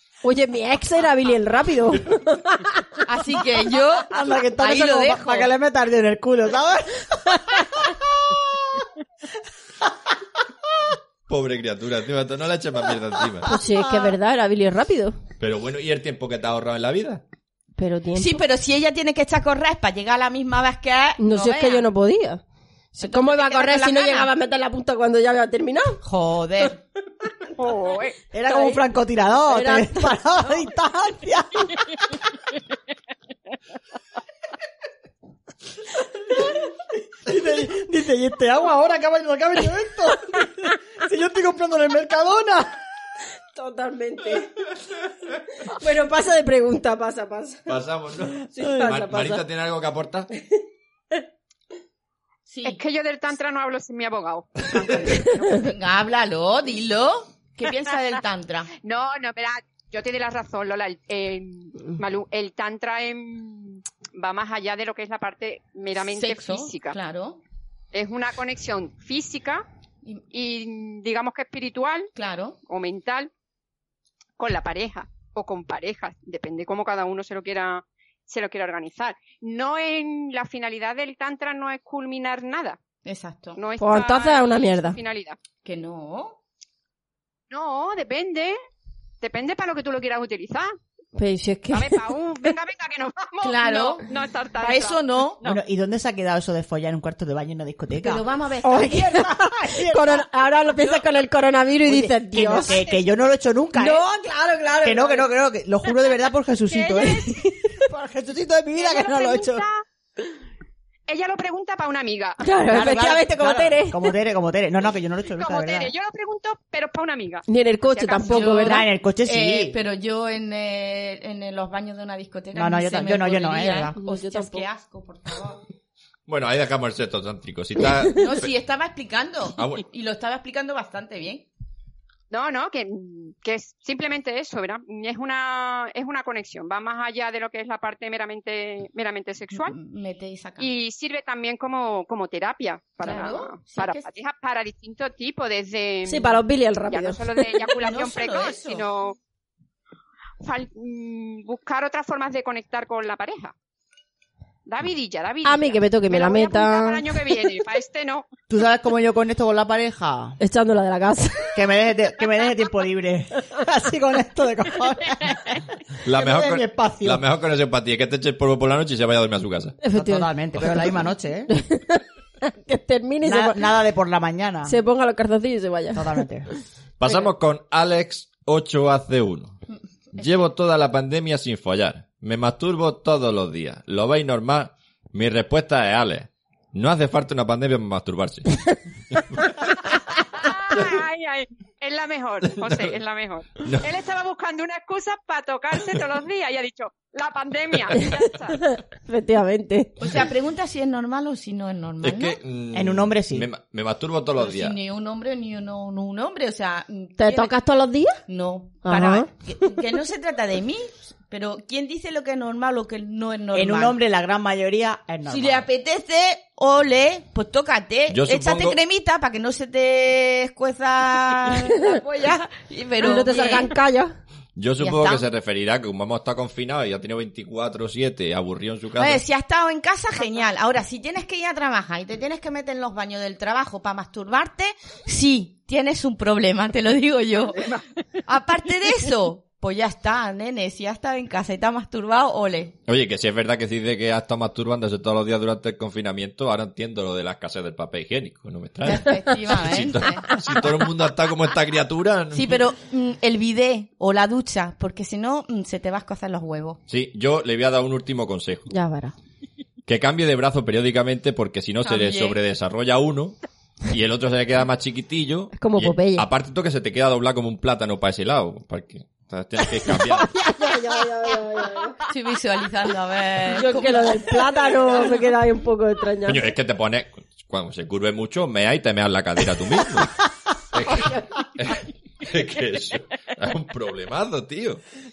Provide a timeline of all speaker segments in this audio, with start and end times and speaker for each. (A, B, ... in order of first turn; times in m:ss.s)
0:00.2-0:02.8 A
0:03.0-0:05.5 B
0:04.1-0:08.8 C
0:11.3-0:13.5 D
0:13.5-0:15.2 A
0:15.4-0:17.2 D
0:17.8-0:18.4 A
0:18.2-0:21.9 B
0:21.2-0:22.4 A
0:22.9-0:26.0 A
0:23.0-0:24.3 B
0:26.0-0:26.8 B
0:27.6-0:28.2 E
0:28.3-0:32.0 C
0:28.5-0:28.8 A
0:29.5-0:30.2 A
0:37.3-0:42.8 C
0:43.6-0:44.5 A
0:45.7-0:47.7 A
0:47.7-0:50.3 D
0:48.4-0:49.4 A
0:52.5-0:52.8 B
0:52.6-0:55.0 E
0:54.8-0:58.7 B
0:58.8-1:07.0 E
1:06.1-1:07.4 B
1:07.9-1:09.7 E
1:10.3-1:12.1 E
1:12.2-1:12.6 B
1:12.7-1:13.3 E
1:14.4-1:22.8 E
1:23.0-1:23.6 B
1:23.6-1:25.4 E
1:23.8-1:25.0 A
1:25.6-1:26.4 B
1:27.5-1:28.6 E
1:29.2-1:30.7 E
1:31.2-1:32.1 A
1:31.7-1:35.6 E
1:33.4-1:34.1 B
1:34.6-1:35.4 B
1:35.4-1:38.2 C
1:38.0-1:39.3 B
1:38.6-1:42.8 A
1:38.8-1:40.2 C
1:41.9-1:44.0 C
1:43.8-1:45.3 A
1:44.8-1:49.6 C
1:46.7-1:47.4 E
1:48.8-1:49.8 E
1:51.1-1:52.4 E
1:52.4-1:54.0 A
1:52.7-1:55.9 C
1:55.4-1:58.6 E
1:57.5-1:58.9 A
1:58.3-2:05.6 B
1:58.6-1:59.8 C
2:02.5-2:03.9 C
2:04.0-2:04.6 A
2:06.3-2:08.5 D
2:08.1-2:11.5 B
2:09.6-2:09.8 D
2:12.3-2:19.8 E
2:19.6-2:20.7 B
2:20.6-2:29.2 E
2:23.0-2:24.1 B
2:26.1-2:27.7 A
2:27.8-2:28.8 B
2:30.4-2:33.5 E
2:34.7-2:38.3 E
2:35.4-2:37.0 A
2:38.5-2:40.4 C
2:40.4-2:41.5 A
2:41.5-2:47.2 C
2:46.0-2:49.8 D
2:49.8-2:50.3 A
2:49.9-2:51.5 C
2:51.5-2:53.6 A
2:53.2-2:54.8 C
2:54.7-2:56.0 A
2:56.0-2:56.5 C
2:57.0-2:59.6 D
3:00.2-3:09.8 D
3:10.3-3:18.6 E
3:12.6-3:12.9 D
3:13.6-3:13.9 D
3:18.7-3:19.9 A
3:20.0-3:22.4 B
3:22.0-3:24.8 D
3:22.7-3:23.5 C
3:24.4-3:27.6 B
3:27.2-3:28.2 A
3:28.3-3:34.0 B
3:28.8-3:29.3 A
3:33.5-3:35.7 C
3:35.3-3:43.8 B
3:38.1-3:38.8 D
3:43.0-3:44.1 A
3:44.6-3:49.2 D
3:44.8-3:45.3 B
3:49.0-4:02.8 B
4:02.9-4:12.6 D
4:08.8-4:10.5 B
4:12.3-4:16.8 B
4:16.9-4:18.7 D
4:18.7-4:19.2 A
4:19.9-4:30.3 D
4:21.8-4:22.4 B
4:25.6-4:26.3 A
4:30.2-4:32.0 A
4:32.1-4:35.2 B
4:33.5-4:36.4 A
4:36.2-4:44.8 D
4:40.9-4:41.3 A